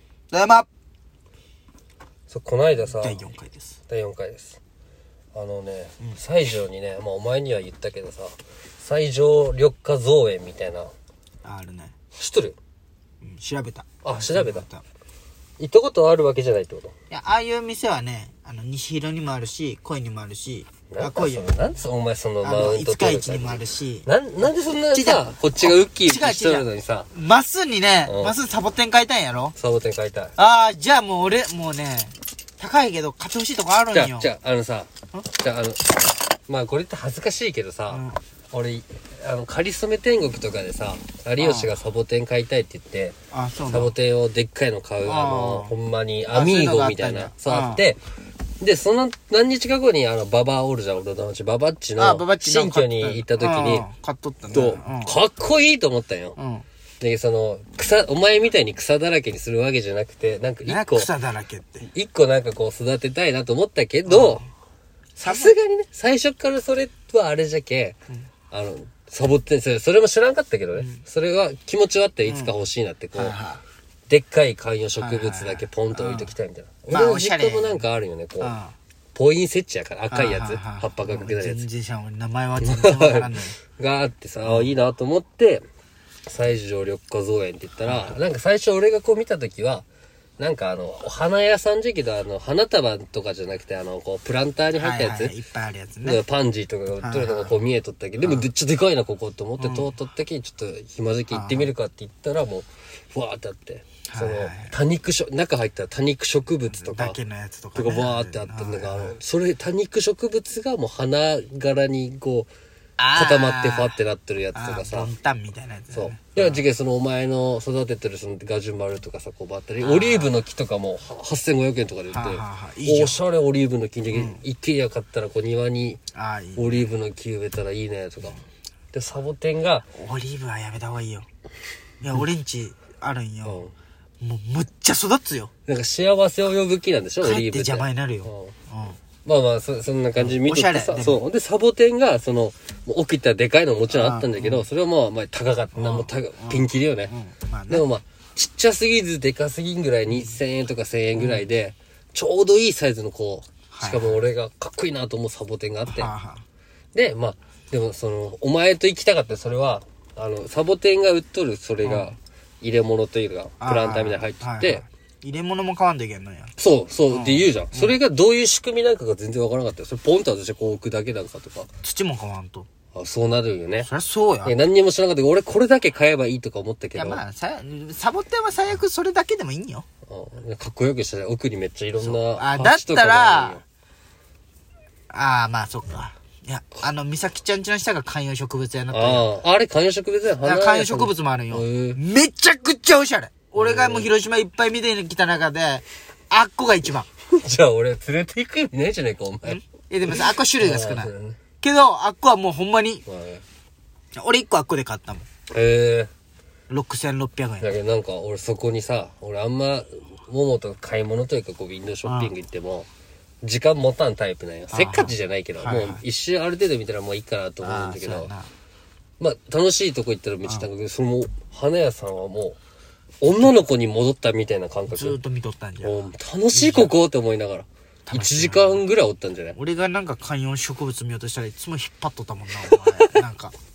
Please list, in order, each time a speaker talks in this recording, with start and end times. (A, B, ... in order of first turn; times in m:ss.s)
0:00.3-0:00.7 A
0:02.3-0:03.2 B
0:02.9-0:03.8 A
0:03.9-0:04.6 B
0:05.3-0:10.9 B
0:11.4-0:12.0 A
0:12.2-0:12.6 B
0:13.2-0:14.8 A
0:14.0-0:14.6 B
0:15.6-0:16.9 B
0:17.1-0:21.8 A
0:20.9-0:27.1 B
0:22.4-0:24.1 A
0:24.9-0:29.6 A
0:28.0-0:28.4 B
0:29.6-0:30.3 B
0:30.4-0:34.3 A
0:33.9-0:43.2 B
0:37.9-0:38.2 A
0:41.4-0:41.7 A
0:43.3-0:43.9 A
0:43.7-0:48.0 B
0:45.0-0:45.8 A
0:46.3-0:47.8 A
0:48.6-0:53.9 B
0:52.0-0:55.2 A
0:54.5-0:56.4 B
0:56.4-0:56.6 A
0:57.0-1:01.1 B
1:00.6-1:01.9 A
1:01.9-1:04.4 B
1:04.1-1:04.5 A
1:05.2-1:05.6 A
1:05.2-1:08.0 B
1:08.5-1:13.4 B
1:10.8-1:11.0 A
1:12.2-1:12.5 A
1:13.2-1:13.6 A
1:14.1-1:18.6 B
1:15.0-1:16.3 A
1:16.9-1:17.9 A
1:18.4-1:18.8 A
1:19.1-1:21.7 B
1:20.1-1:23.6 A
1:22.6-1:25.6 B
1:24.4-1:24.7 A
1:26.3-1:29.9 B
1:27.8-1:28.2 A
1:30.4-1:35.4 B
1:34.8-1:36.2 A
1:36.0-1:47.2 B
1:37.0-1:37.6 A
1:39.6-1:39.9 A
1:41.3-1:41.7 A
1:44.1-1:44.8 A
1:46.7-1:49.2 A
1:47.8-1:52.5 B
1:53.0-1:54.0 A
1:53.1-1:55.1 B
1:54.5-1:56.6 A
1:55.9-2:06.0 B
1:59.8-2:00.3 A
2:02.1-2:03.2 A
2:04.1-2:04.4 A
2:06.1-2:06.9 A
2:06.6-2:08.4 B
2:08.9-2:09.9 B
2:10.0-2:11.3 A
2:12.0-2:13.7 A
2:13.4-2:13.7 B
2:14.2-2:15.5 A
2:15.7-2:18.6 B
2:17.2-2:19.0 A
2:19.2-2:27.1 B
2:20.2-2:21.2 A
2:23.9-2:24.6 A
2:25.7-2:27.9 A
2:27.7-2:36.1 B
2:30.1-2:30.4 A
2:31.2-2:31.5 A
2:33.7-2:34.2 A
2:35.9-2:36.4 A
2:36.9-2:44.8 B
2:41.8-2:42.1 A
2:43.6-2:46.5 A
2:46.6-2:51.7 B
2:47.1-2:48.0 A
2:51.8-2:52.7 A
2:52.9-2:53.9 B
2:53.8-2:54.6 A
2:54.4-2:57.2 B
2:57.0-2:59.9 A
3:00.1-3:03.6 B
3:02.0-3:03.6 A
3:05.1-3:09.3 A
3:08.9-3:12.0 B
3:10.4-3:17.1 A
3:13.6-3:14.1 B
3:17.3-3:21.4 B
3:19.5-3:23.0 A
3:23.1-3:23.4 B
3:24.2-3:25.3 A
3:25.5-3:26.1 B
3:26.7-3:27.8 A
3:27.6-3:32.9 B
3:32.0-3:32.3 A
3:33.4-3:38.3 B
3:34.7-3:36.0 A
3:37.6-3:38.5 A
3:39.2-3:42.6 B
3:43.2-3:45.2 B
3:44.9-3:46.9 A
3:45.8-3:49.6 B
3:48.1-3:48.8 A
3:49.6-3:53.6 A
3:52.7-3:53.0 B